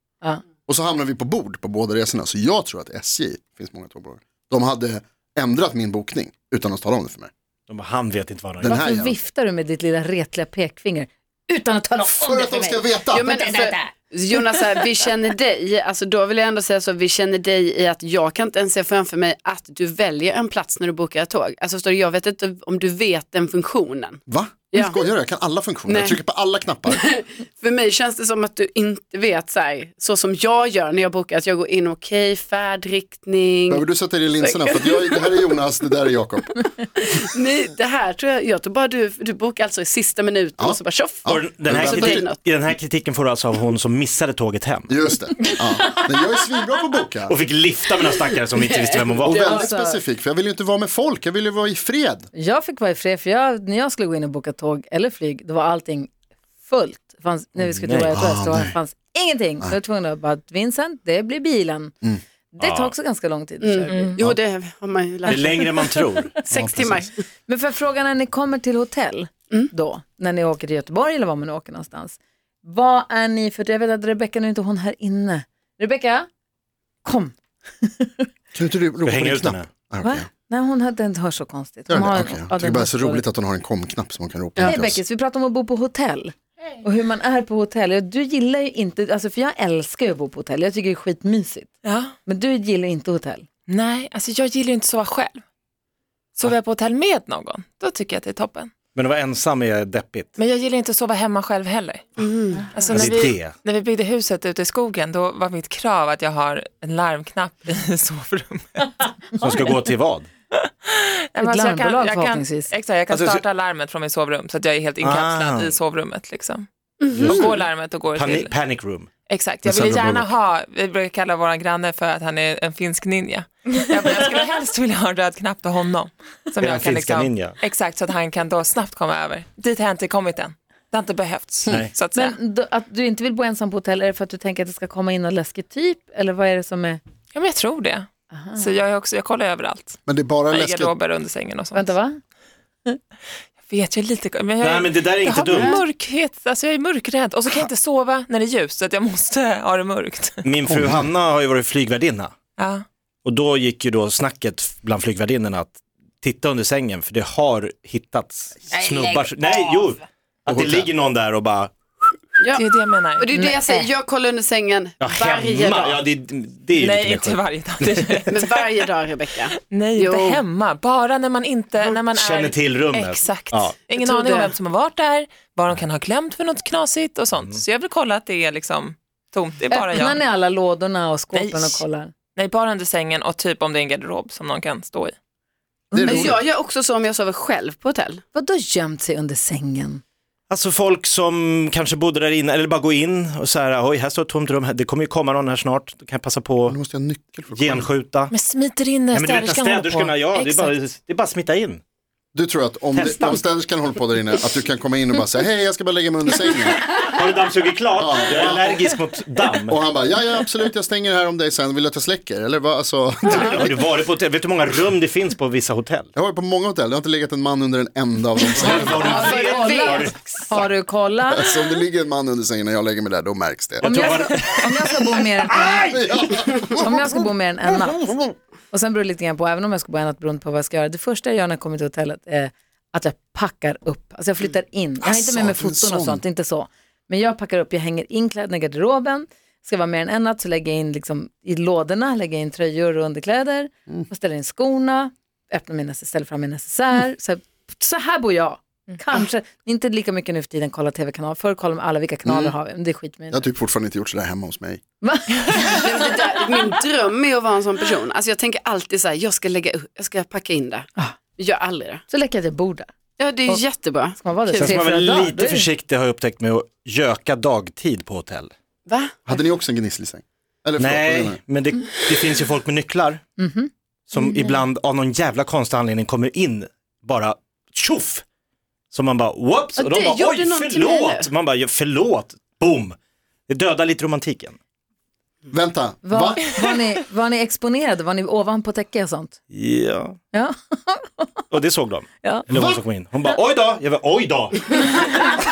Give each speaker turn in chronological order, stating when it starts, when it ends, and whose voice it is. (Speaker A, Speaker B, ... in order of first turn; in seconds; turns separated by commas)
Speaker A: 0.7-7.3, Speaker B: 7.7-8.8, Speaker A: 8.6-9.2, Speaker C: 8.6-13.8, Speaker A: 12.1-13.5, Speaker D: 13.1-25.0, Speaker A: 24.3-27.0, Speaker D: 25.9-26.2, Speaker D: 26.9-33.8, Speaker A: 33.7-36.6, Speaker D: 34.4-35.5, Speaker D: 37.1-42.4, Speaker A: 40.6-42.2, Speaker B: 41.3-44.9, Speaker A: 44.9-47.4, Speaker B: 47.3-49.5, Speaker D: 48.6-49.6, Speaker A: 49.2-52.3, Speaker C: 49.3-50.0, Speaker C: 52.3-56.1, Speaker C: 56.6-61.9, Speaker B: 57.6-58.1, Speaker A: 58.1-58.7, Speaker C: 62.5-64.1, Speaker B: 62.6-62.9, Speaker D: 63.6-67.2, Speaker B: 65.3-66.4, Speaker A: 66.5-67.1, Speaker C: 67.5-76.3, Speaker C: 77.0-78.3, Speaker A: 78.5-80.3, Speaker B: 79.0-79.7, Speaker C: 80.0-83.2, Speaker A: 81.9-85.0, Speaker C: 84.6-91.7, Speaker E: 91.8-92.1, Speaker C: 92.2-93.5, Speaker E: 93.7-95.4, Speaker E: 96.3-98.7, Speaker B: 98.9-100.3, Speaker E: 100.4-102.1, Speaker D: 102.2-103.1, Speaker E: 102.7-109.1, Speaker B: 102.9-103.6, Speaker B: 109.3-110.3, Speaker E: 110.6-118.5, Speaker C: 111.4-112.7, Speaker B: 113.1-113.4, Speaker B: 115.0-115.7, Speaker D: 117.0-117.6, Speaker B: 117.2-117.5, Speaker B: 118.1-119.1, Speaker E: 119.2-132.4, Speaker A: 119.6-120.3, Speaker B: 126.6-127.6, Speaker C: 132.1-137.0, Speaker E: 137.3-141.9, Speaker C: 138.3-138.7, Speaker A: 140.1-140.9, Speaker C: 141.7-142.2, Speaker E: 143.6-150.5, Speaker B: 144.6-145.8, Speaker D: 145.5-145.8, Speaker B: 150.4-152.3, Speaker A: 150.7-151.1, Speaker E: 152.6-152.8, Speaker B: 153.2-161.7, Speaker A: 160.5-160.9, Speaker D: 162.4-162.6, Speaker E: 162.5-163.3, Speaker D: 163.2-166.0, Speaker C: 163.3-163.9, Speaker B: 165.0-168.2, Speaker E: 166.7-168.7, Speaker D: 168.3-170.4, Speaker E: 169.6-180.2, Speaker B: 172.1-173.8, Speaker D: 173.9-174.5, Speaker C: 179.7-182.1, Speaker E: 181.3-181.8, Speaker E: 182.3-185.2, Speaker C: 185.9-186.3, Speaker A: 185.9-186.4, Speaker D: 186.0-188.2, Speaker C: 188.3-190.0, Speaker B: 190.5-196.8, Speaker A: 196.7-197.9, Speaker B: 197.5-198.3, Speaker E: 198.3-200.7, Speaker B: 199.1-201.8, Speaker A: 202.3-206.9, Speaker B: 202.9-203.4, Speaker B: 207.0-209.8, Speaker A: 208.0-208.9, Speaker A: 209.7-213.8, Speaker B: 213.3-216.1, Speaker A: 216.1-219.3, Speaker B: 218.5-220.7, Speaker D: 218.6-220.4, Speaker C: 218.9-221.5, Speaker A: 221.3-224.2, Speaker B: 223.8-224.8, Speaker C: 223.8-226.0, Speaker B: 225.5-226.1, Speaker A: 225.8-226.9, Speaker C: 226.7-228.1, Speaker C: 228.7-253.4, Speaker A: 235.0-236.2, Speaker A: 252.2-252.5, Speaker A: 253.3-254.8, Speaker C: 255.0-256.2, Speaker D: 255.6-262.0, Speaker C: 262.1-262.9, Speaker D: 263.2-264.8, Speaker C: 264.1-265.7, Speaker B: 264.6-268.5, Speaker D: 268.9-269.2, Speaker A: 269.2-271.4, Speaker B: 270.8-273.2, Speaker C: 273.4-274.6, Speaker B: 274.1-278.2, Speaker B: 278.9-283.0, Speaker D: 279.8-281.3, Speaker B: 283.5-284.6, Speaker A: 285.5-286.4, Speaker C: 286.0-289.4, Speaker B: 289.5-290.2, Speaker C: 290.3-291.4, Speaker B: 291.5-295.2, Speaker A: 292.5-292.8